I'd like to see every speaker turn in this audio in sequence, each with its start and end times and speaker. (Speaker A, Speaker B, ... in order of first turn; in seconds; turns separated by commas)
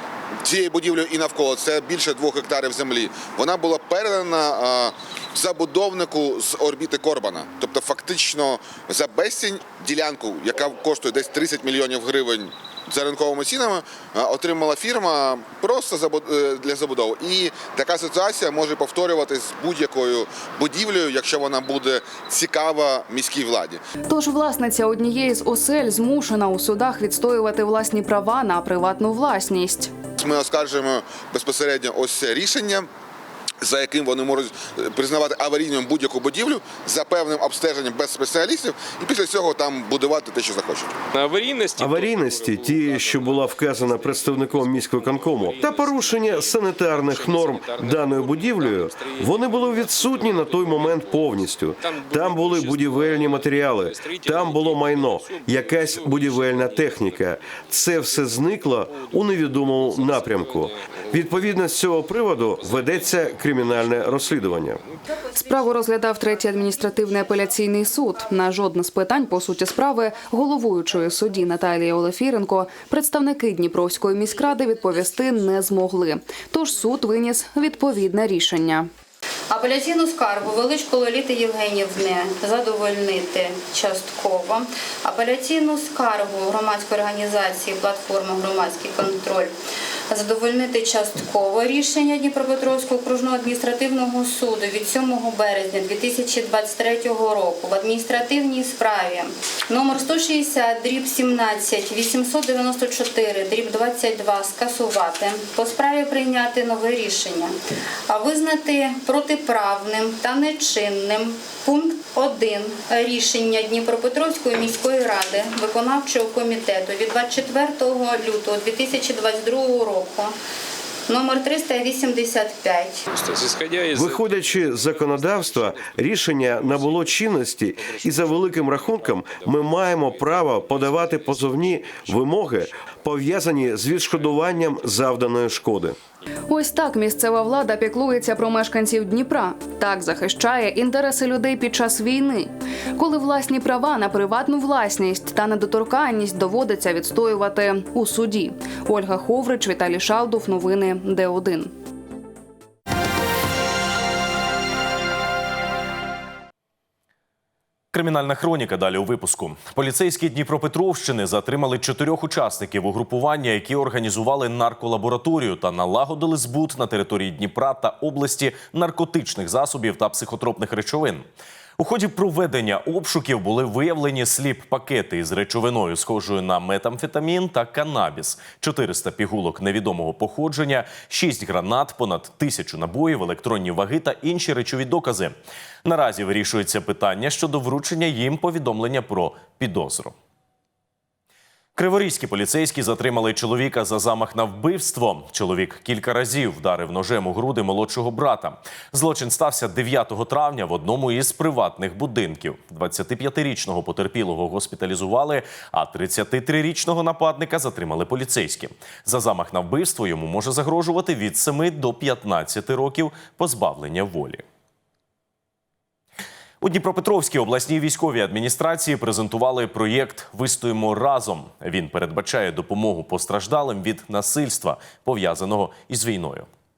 Speaker A: 0.4-23.8, Speaker B: 24.1-29.9, Speaker A: 30.2-32.9, Speaker A: 33.6-40.9, Speaker C: 41.7-64.8, Speaker B: 65.3-78.9, Speaker D: 79.5-89.5, Speaker D: 90.1-107.5, Speaker D: 108.1-120.3, Speaker D: 121.1-123.0, Speaker C: 123.8-135.9, Speaker B: 136.5-151.7, Speaker E: 157.9-171.3, Speaker E: 171.8-190.1, Speaker E: 191.8-214.4, Speaker E: 216.6-226.5